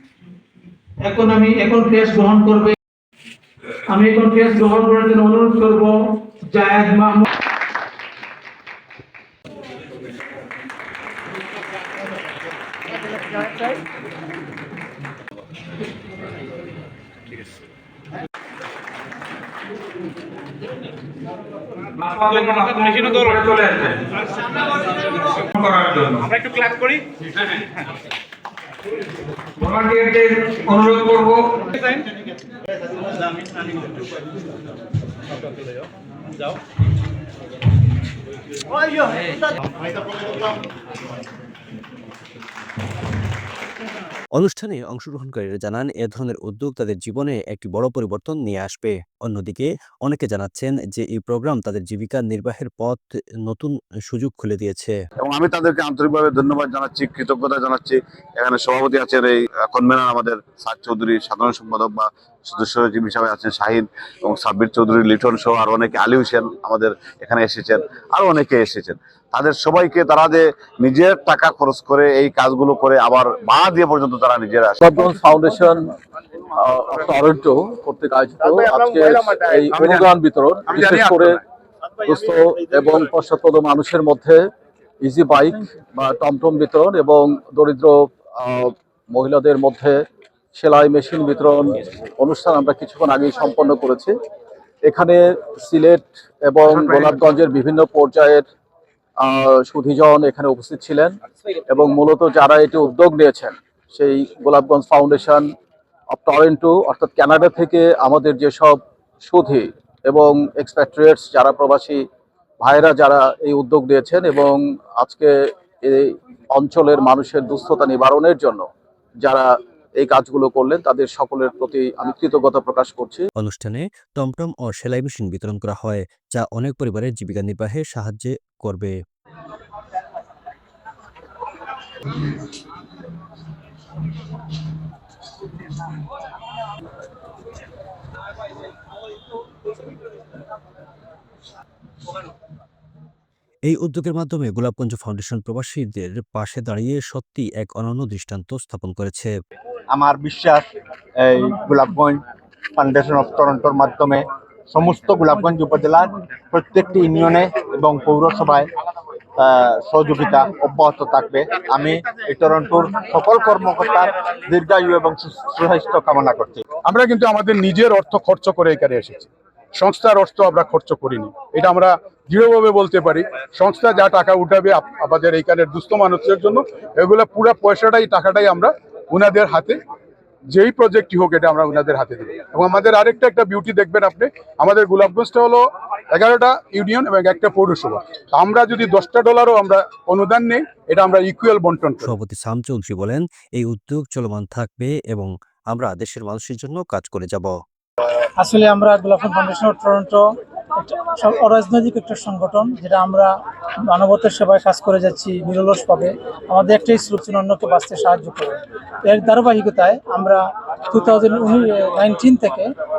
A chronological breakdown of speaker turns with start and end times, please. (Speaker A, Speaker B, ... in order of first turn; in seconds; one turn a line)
Speaker A: 1.1-2.8
Speaker A: 3.9-7.3
Speaker B: 21.9-24.1
Speaker B: 25.3-26.9
Speaker B: 29.6-31.7
Speaker C: 44.4-55.0
Speaker D: 55.2-74.9
Speaker E: 74.8-76.0
Speaker E: 76.6-81.4
Speaker F: 79.7-80.1
Speaker F: 80.7-81.2
Speaker E: 82.0-84.4
Speaker E: 85.0-90.0
Speaker E: 90.5-94.2
Speaker E: 94.9-98.5
Speaker E: 99.2-101.2
Speaker E: 101.7-105.5
Speaker E: 106.1-112.0
Speaker E: 112.6-115.3
Speaker E: 115.8-118.7
Speaker E: 119.2-123.3
Speaker C: 123.4-128.9
Speaker C: 143.7-149.3
Speaker G: 149.9-150.7
Speaker G: 151.2-152.2
Speaker G: 152.8-158.7
Speaker G: 159.4-166.6
Speaker F: 166.8-179.8
Speaker F: 180.5-192.1
Speaker C: 192.0-197.5
Speaker A: 198.4-200.2
Speaker A: 200.8-203.3
Speaker A: 203.9-212.7